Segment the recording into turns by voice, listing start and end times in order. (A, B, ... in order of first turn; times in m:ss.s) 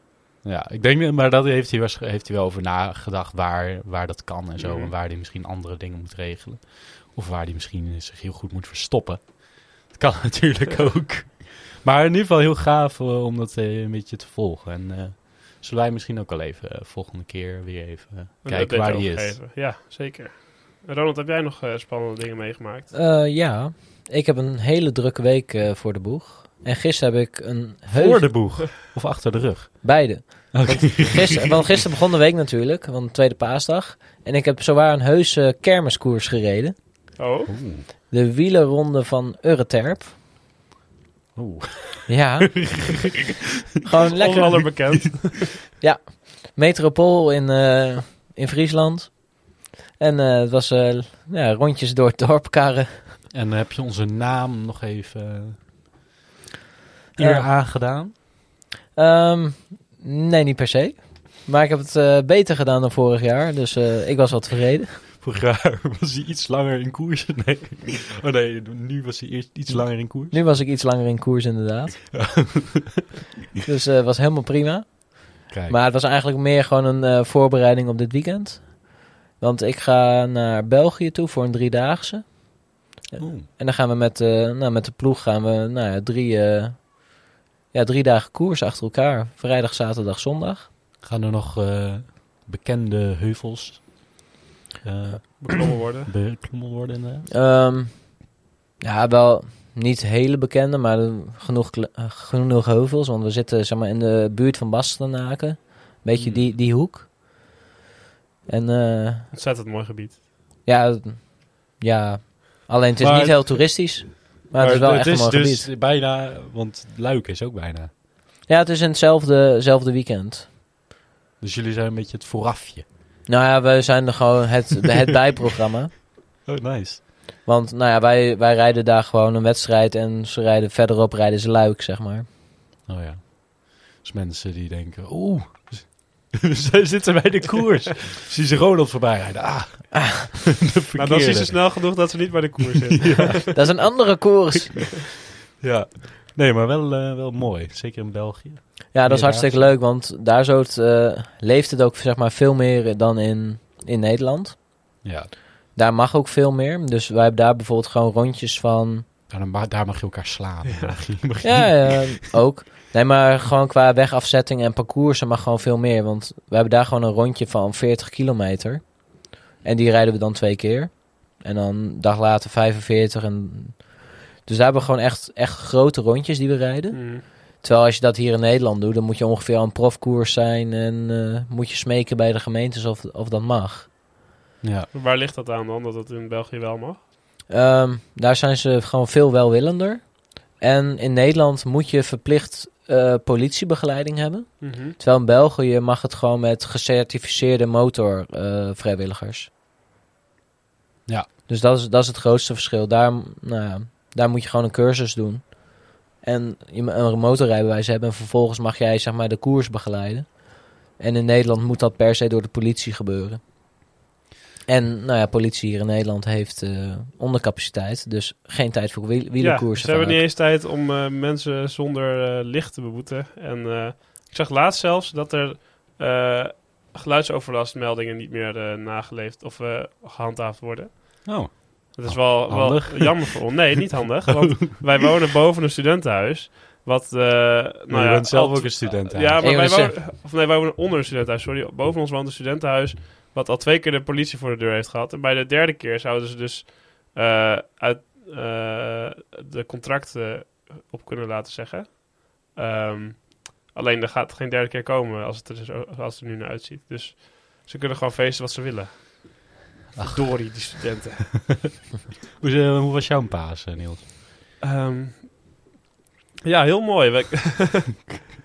0:00.4-0:19.4 A
0:04.6-0:04.9 B
0:18.4-0:22.9 B
0:22.9-0:28.6 C
0:27.9-0:31.7 A
0:29.8-0:36.8 C
0:37.2-0:37.5 B
0:37.5-0:37.8 A
0:38.1-0:40.1 C
0:41.4-0:43.3 A
0:42.1-0:42.8 C
0:43.8-0:44.6 C
0:44.1-0:45.6 B
0:44.4-0:45.2 A
0:45.8-0:53.2 C
0:53.3-0:55.6 A
0:57.2-0:57.5 C
0:57.2-0:58.1 A
0:58.9-1:05.0 C
1:05.2-1:10.4 A
1:10.0-1:12.4 C
1:12.1-1:12.8 A
1:13.6-1:30.7 C
1:15.5-1:15.8 A
1:23.2-1:23.4 A
1:31.0-1:34.1 A
1:34.8-1:37.3 A
1:35.4-1:36.1 B
1:37.3-1:47.1 C
1:48.5-1:49.3 C
1:49.3-1:50.2 B
1:50.6-1:55.7 C
1:53.0-1:54.0 A
1:54.5-1:57.9 A
1:58.4-2:00.5 C
2:01.4-2:02.8 A
2:03.3-2:05.9 C
2:06.4-2:07.0 A
2:07.4-2:12.3 C
2:12.8-2:22.2 A
2:20.9-2:23.5 B
2:22.9-2:23.8 A
2:23.5-2:25.0 C
2:25.6-2:29.8 A
2:28.9-2:34.8 C
2:35.0-2:35.3 A
2:35.7-2:39.0 C
2:39.3-2:42.2 A
2:40.6-2:41.0 B
2:41.4-3:03.9 C
2:56.9-2:57.2 B
3:04.6-3:04.9 A
3:04.9-3:07.0 B
3:07.5-3:19.5 C
3:14.6-3:15.0 B
3:21.5-3:33.4 C
3:34.7-3:40.2 C
3:39.4-4:19.4 B
3:51.2-3:53.6 A
3:57.9-3:59.4 A
3:59.4-4:00.0 C
4:20.0-4:20.6 A
4:20.0-4:21.7 B
4:22.4-4:24.0 A
4:24.6-4:25.3 B
4:26.4-4:28.0 B